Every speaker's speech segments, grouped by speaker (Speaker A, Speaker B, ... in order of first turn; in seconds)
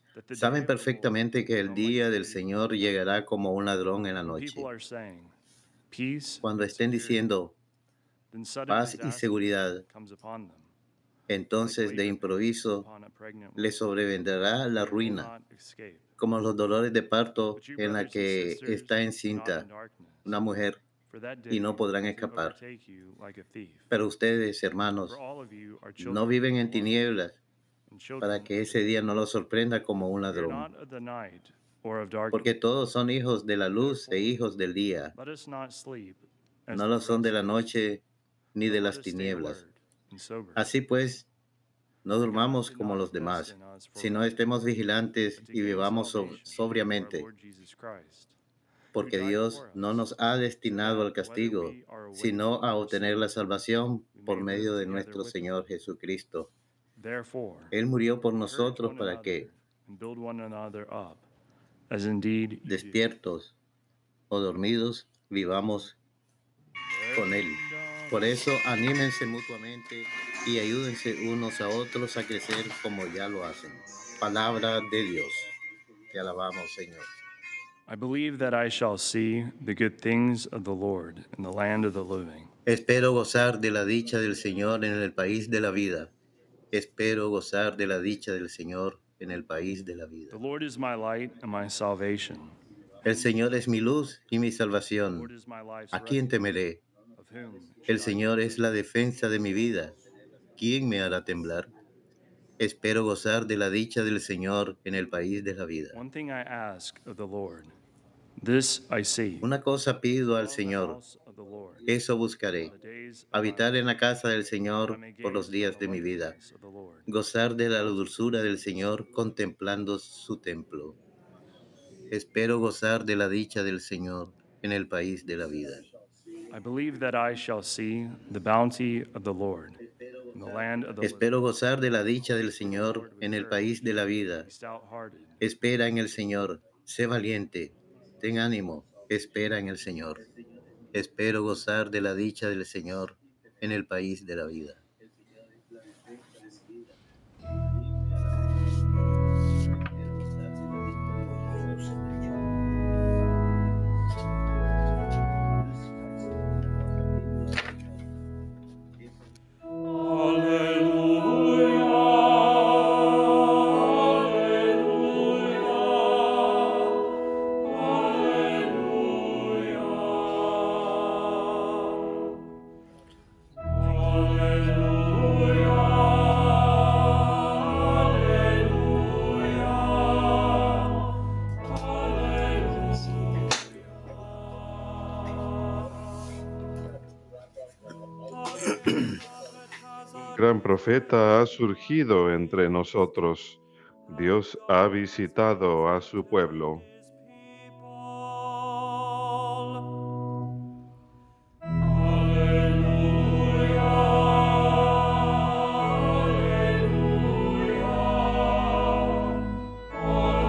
Speaker A: 0.1-3.0, 4.3-5.3, 5.9-7.2, 8.3-10.7, 11.6-13.9, 14.7-16.1, 17.5-20.4, 21.1-23.9, 25.0-27.0, 27.9-28.9, 30.3-32.6, 33.7-34.4, 35.1-37.6, 38.6-40.7, 42.2-48.3, 49.0-49.9, 50.7-53.4, 54.1-55.5, 57.0-57.7, 58.4-61.3, 61.9-63.0, 66.8-68.4, 77.9-82.5, 90.3-93.4, 95.1-96.4, 97.2-98.8, 105.9-107.7, 108.4-109.5, 110.3-111.9, 112.6-113.9, 114.7-117.1, 126.5-129.8, 130.3-131.4, 132.4-135.4
Speaker B: 0.3-4.7, 6.4-7.5, 8.7-9.8, 11.3-12.9, 13.6-15.3, 16.2-19.7, 20.2-20.8, 21.5-22.6, 23.9-25.1, 26.0-27.4, 28.2-30.7, 32.3-35.1, 36.7-38.0, 38.5-39.6, 40.5-41.3, 42.0-47.3, 48.9-56.5, 57.7-59.5, 62.7-63.5, 64.3-66.0, 67.2-75.5, 76.1-77.1, 82.7-86.1, 86.7-90.4, 93.0-95.3, 95.9-96.8, 97.9-100.0, 100.6-101.7, 102.6-106.0, 109.4-111.0, 111.8-112.7, 113.3-116.3, 117.1-121.0, 122.1-125.9, 130.0-130.4, 131.0-134.5, 135.4-140.3, 140.9-144.8, 150.6-152.0
Speaker C: 190.3-196.9